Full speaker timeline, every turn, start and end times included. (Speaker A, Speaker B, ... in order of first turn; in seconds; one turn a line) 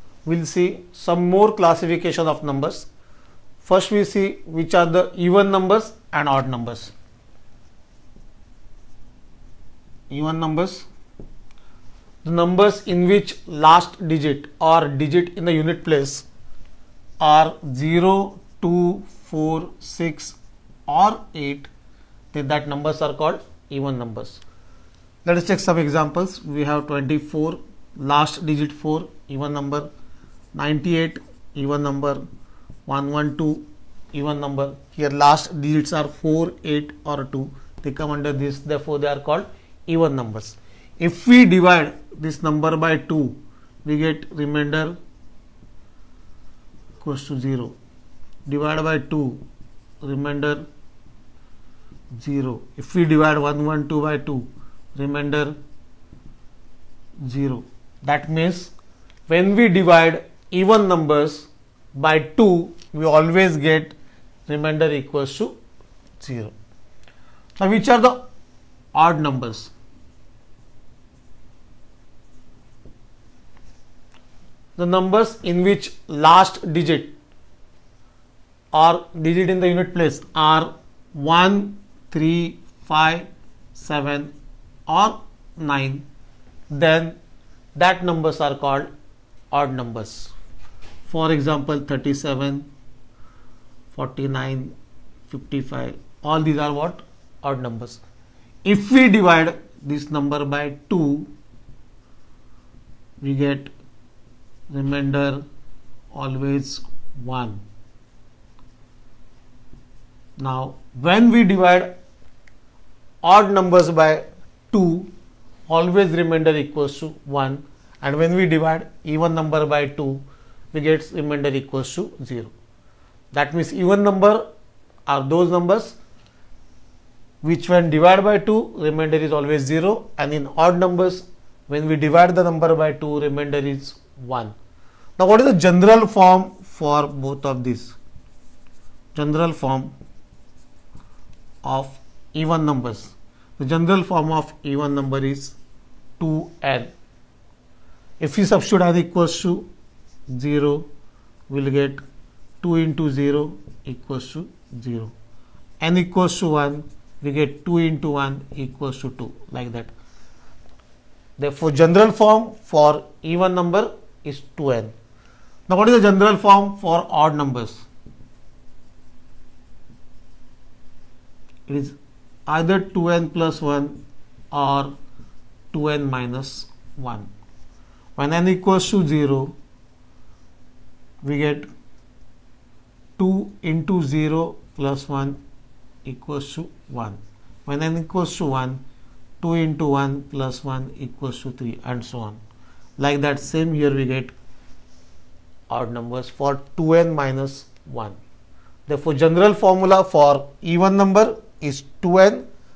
Speaker A: 0.2-2.9
Speaker A: 3.6-6.9
Speaker A: 10.1-10.9
Speaker A: 12.2-16.2
Speaker A: 17.2-20.4
Speaker A: 20.9-21.7
Speaker A: 22.3-24.4
Speaker A: 25.2-29.9
Speaker A: 30.5-32.2
Speaker A: 32.9-45.0
Speaker A: 47.0-47.7
Speaker A: 48.5-49.4
Speaker A: 50.0-50.6
Speaker A: 52.1-55.6
Speaker A: 57.2-58.7
Speaker A: 59.3-63.9
Speaker A: 64.5-65.5
Speaker A: 66.2-66.5
Speaker A: 67.6-68.2
Speaker A: 68.9-69.7
Speaker A: 74.8-77.1
Speaker A: 78.7-84.3
Speaker A: 84.9-86.0
Speaker A: 86.7-87.2
Speaker A: 87.7-88.9
Speaker A: 89.5-90.3
Speaker A: 91.1-92.7
Speaker A: 93.9-94.7
Speaker A: 95.3-98.0
Speaker A: 98.6-101.3
Speaker A: 103.2-103.7
Speaker A: 104.7-105.4
Speaker A: 106.1-107.6
Speaker A: 110.4-111.9
Speaker A: 113.2-115.1
Speaker A: 115.7-122.5
Speaker A: 123.3-124.4
Speaker A: 125.1-126.0
Speaker A: 127.4-134.5
Speaker A: 135.2-138.0
Speaker A: 139.1-139.9
Speaker A: 141.6-145.6
Speaker A: 146.2-146.9
Speaker A: 148.2-149.7
Speaker A: 150.3-150.8
Speaker A: 151.5-152.0
Speaker A: 152.6-155.1
Speaker A: 155.8-159.9
Speaker A: 161.4-164.9
Speaker A: 165.7-167.8
Speaker A: 171.7-174.0
Speaker A: 174.5-174.9
Speaker A: 175.7-177.3
Speaker A: 178.2-179.5
Speaker A: 181.2-181.7
Speaker A: 183.2-185.4
Speaker A: 186.0-188.8
Speaker A: 189.4-192.4
Speaker A: 193.0-194.3
Speaker A: 195.7-198.2
Speaker A: 198.9-202.4